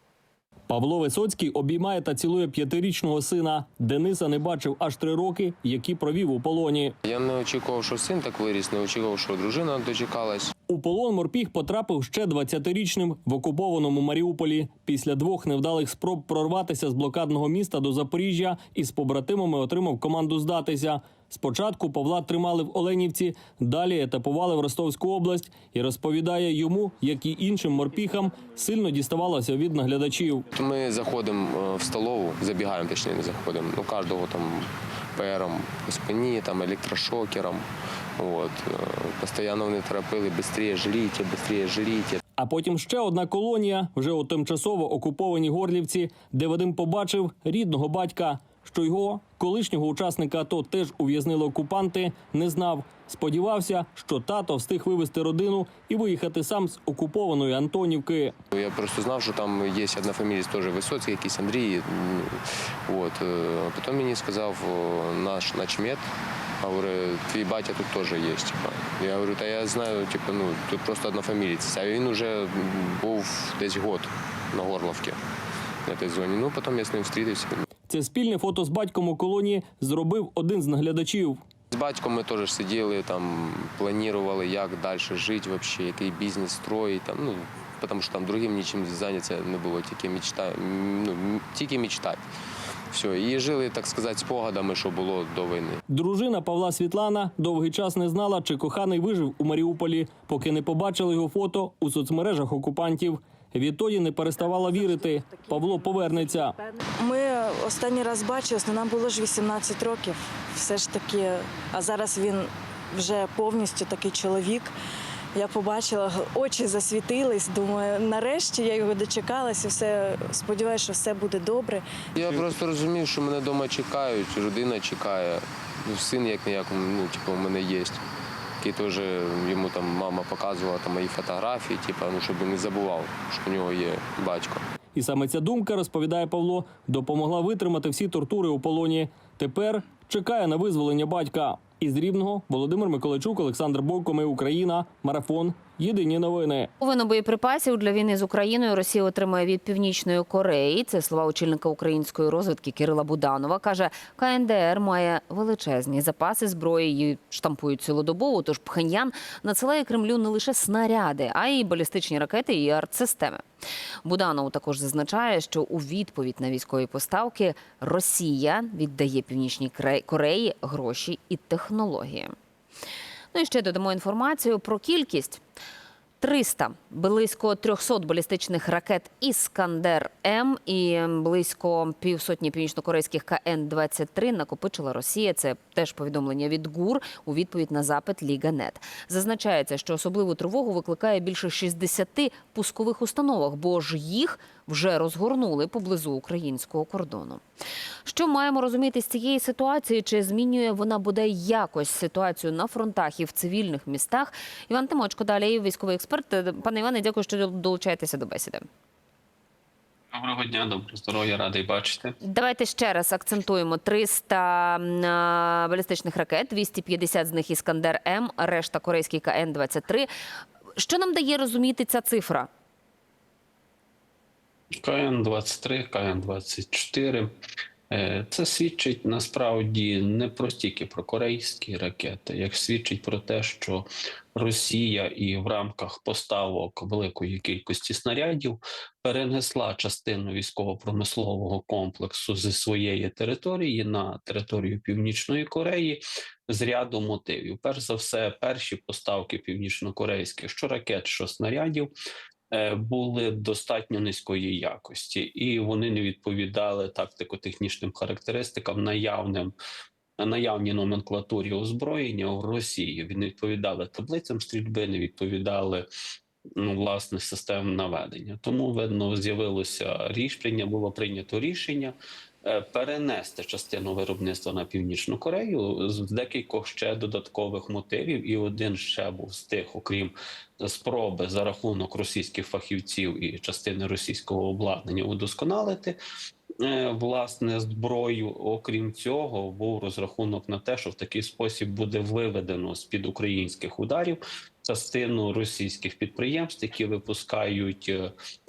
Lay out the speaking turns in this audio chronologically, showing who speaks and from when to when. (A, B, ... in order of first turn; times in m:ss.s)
0:00.7-0:06.9 A
0:07.0-0:10.5 B
0:10.7-0:30.4 A
0:30.5-0:37.6 B
0:38.2-0:42.2 B
0:42.4-0:58.3 A
0:58.5-1:06.0 B
1:06.6-1:15.2 B
1:15.8-1:17.6 B
1:17.9-1:21.4 A
1:21.7-1:32.2 B
1:32.9-1:35.8 B
1:35.9-1:46.5 A
1:46.6-1:54.7 C
1:55.3-2:01.8 C
2:02.1-2:08.0 B
2:08.6-2:14.6 B
2:14.9-2:26.7 A
2:26.8-2:43.4 D
2:44.0-2:52.3 D
2:53.3-2:55.4 D
2:56.2-3:17.4 D
3:18.0-3:28.6 D
3:30.1-3:32.2 E
3:32.2-3:40.1 D
3:40.8-3:42.5 D
3:44.8-3:47.3 E
3:47.9-4:11.9 E
4:12.5-4:19.5 E
4:20.2-4:25.9 E
4:26.6-4:46.0 E
4:46.6-4:58.1 E